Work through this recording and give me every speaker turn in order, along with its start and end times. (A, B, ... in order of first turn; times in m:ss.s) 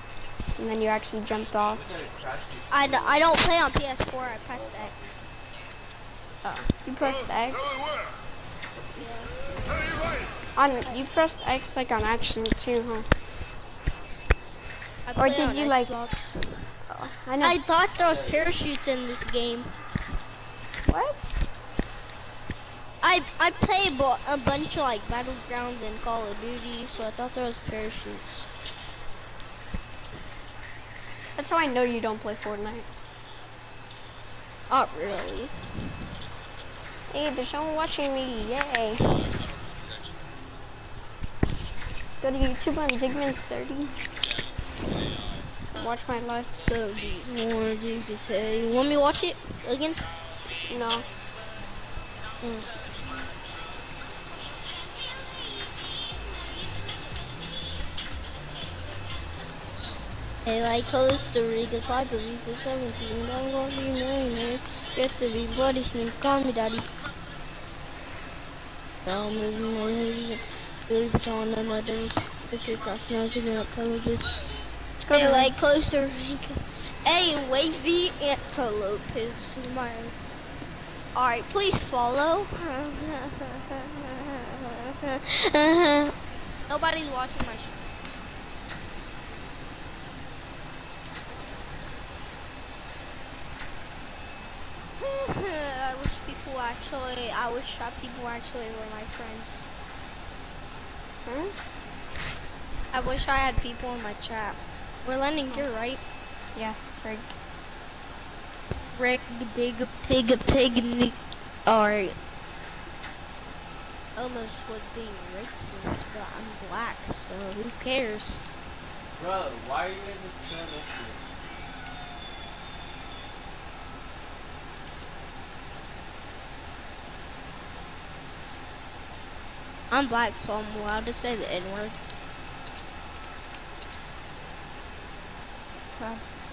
0:00.6-0:01.8 A
0:01.7-0:05.2 B
0:02.7-0:05.2 C
0:06.4-0:07.8 A
0:09.0-0:09.9 C
0:10.6-0:13.1 A
0:15.0-0:16.4 C
0:15.2-0:15.9 A
0:16.9-0:17.6 A
0:17.4-0:19.7 C
0:18.0-0:18.6 B
0:20.9-0:21.4 A
0:23.0-0:28.5 C
0:31.4-0:32.9 A
0:34.7-0:35.5 C
0:37.1-0:39.2 A
0:42.2-0:44.0 A
0:45.8-0:46.5 A
0:46.7-0:50.0 C
0:50.7-0:51.1 A
0:52.4-0:52.7 A
1:00.4-1:06.9 C
1:09.0-1:14.3 C
1:15.0-1:15.5 A
1:15.1-1:20.2 C
1:21.1-1:26.1 C
1:26.7-1:27.8 C
1:35.0-1:39.7 C
1:41.3-1:41.6 A
1:42.9-1:46.0 C
1:46.6-1:47.3 A
1:48.8-1:52.2 C
1:54.2-1:58.4 C
1:59.2-2:01.2 B
2:09.9-2:12.0 C
2:16.0-2:16.2 A